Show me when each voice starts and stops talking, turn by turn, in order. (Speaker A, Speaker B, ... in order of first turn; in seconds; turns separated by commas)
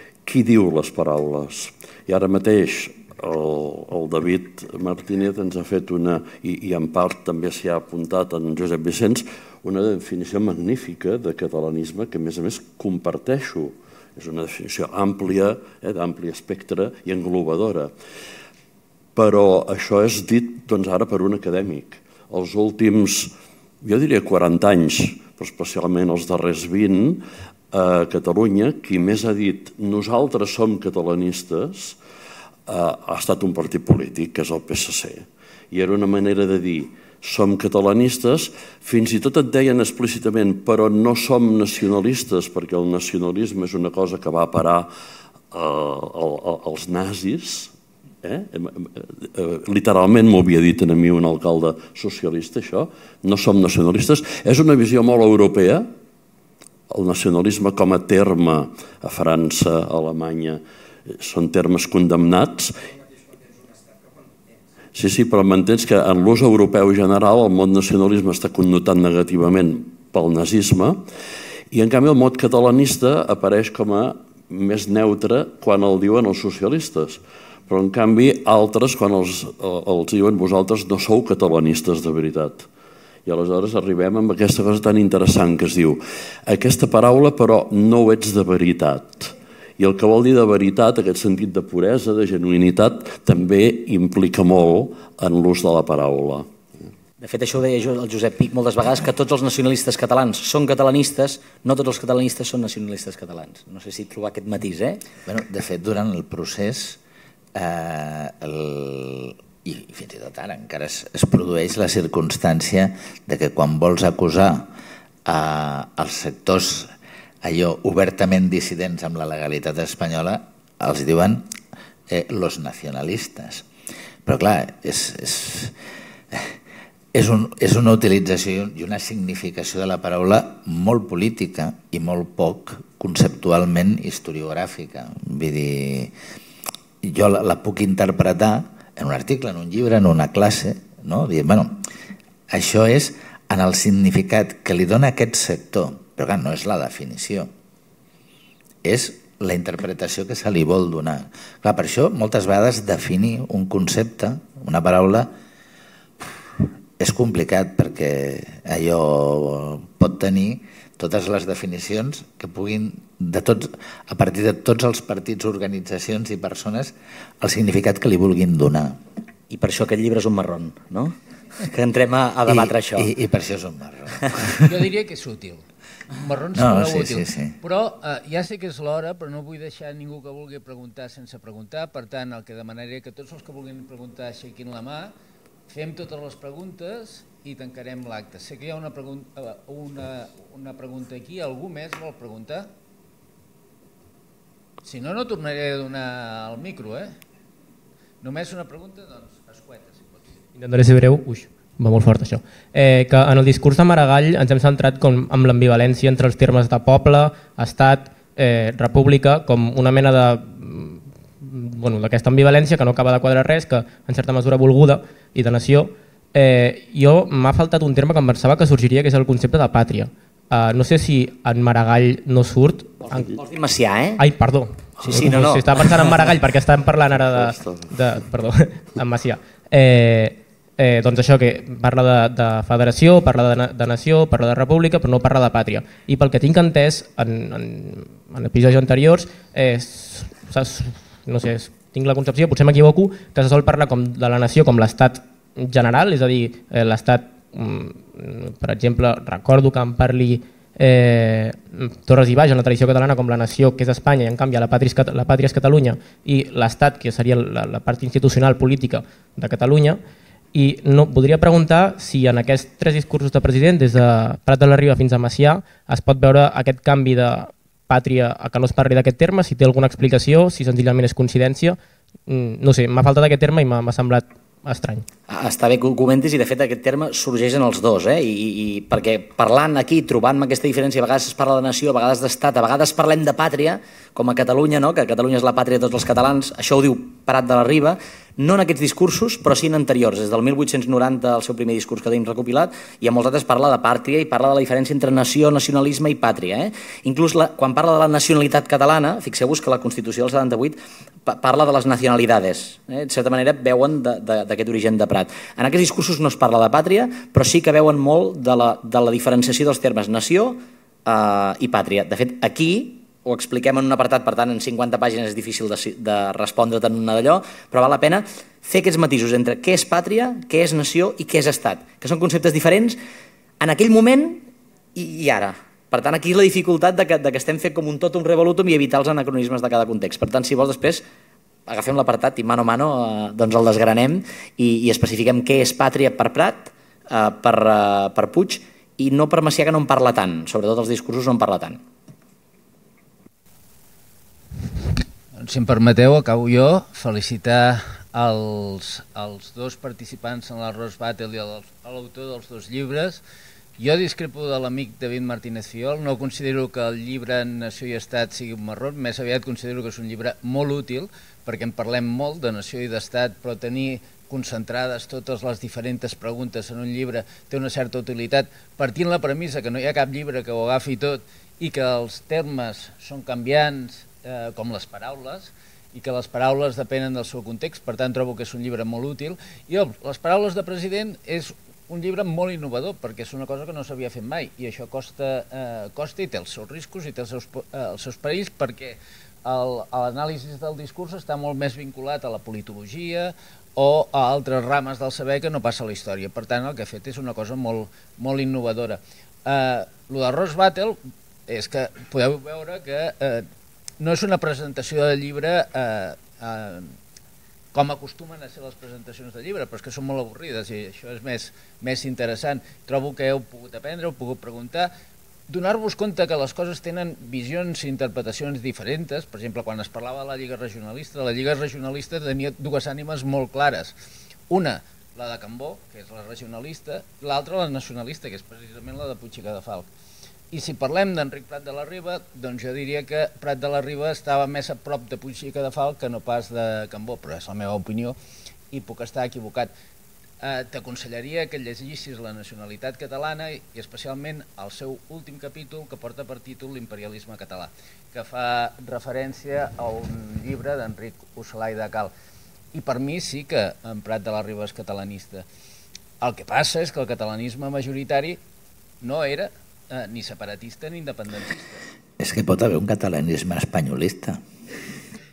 Speaker A: 0.2-17.9, Speaker A: 19.1-32.0, Speaker A: 32.7-44.9, Speaker A: 45.5-47.7, Speaker A: 48.2-55.9, Speaker A: 56.9-62.8, Speaker A: 64.9-71.0, Speaker A: 71.7-82.7, Speaker A: 83.2-96.5, Speaker B: 97.2-105.0, Speaker C: 105.2-107.0, Speaker C: 107.5-114.7, Speaker C: 115.2-116.9, Speaker C: 117.4-121.5, Speaker C: 122.1-123.7, Speaker C: 124.2-125.8, Speaker C: 126.3-126.6, Speaker C: 127.1-136.1, Speaker C: 137.0-141.8, Speaker C: 142.5-147.5, Speaker C: 148.8-155.3, Speaker C: 157.0-169.0, Speaker B: 169.5-173.1, Speaker C: 172.5-174.7, Speaker D: 174.6-185.1, Speaker C: 176.5-177.6, Speaker D: 185.7-192.7, Speaker D: 194.8-197.1, Speaker D: 198.2-200.2, Speaker E: 200.6-223.4, Speaker B: 223.0-224.2, Speaker E: 224.2-260.0, Speaker B: 225.0-225.7, Speaker A: 227.2-227.9, Speaker E: 260.5-275.1, Speaker B: 275.3-323.0, Speaker B: 323.6-331.0, Speaker B: 331.7-341.8, Speaker D: 345.4-353.2, Speaker D: 353.8-403.5, Speaker D: 404.0-406.9, Speaker D: 407.7-414.9, Speaker D: 415.5-423.9, Speaker D: 424.5-429.9, Speaker D: 430.5-438.2, Speaker D: 438.7-439.7, Speaker D: 440.4-452.1, Speaker D: 452.7-455.4, Speaker D: 456.2-458.4, Speaker D: 459.0-461.8, Speaker C: 462.2-464.4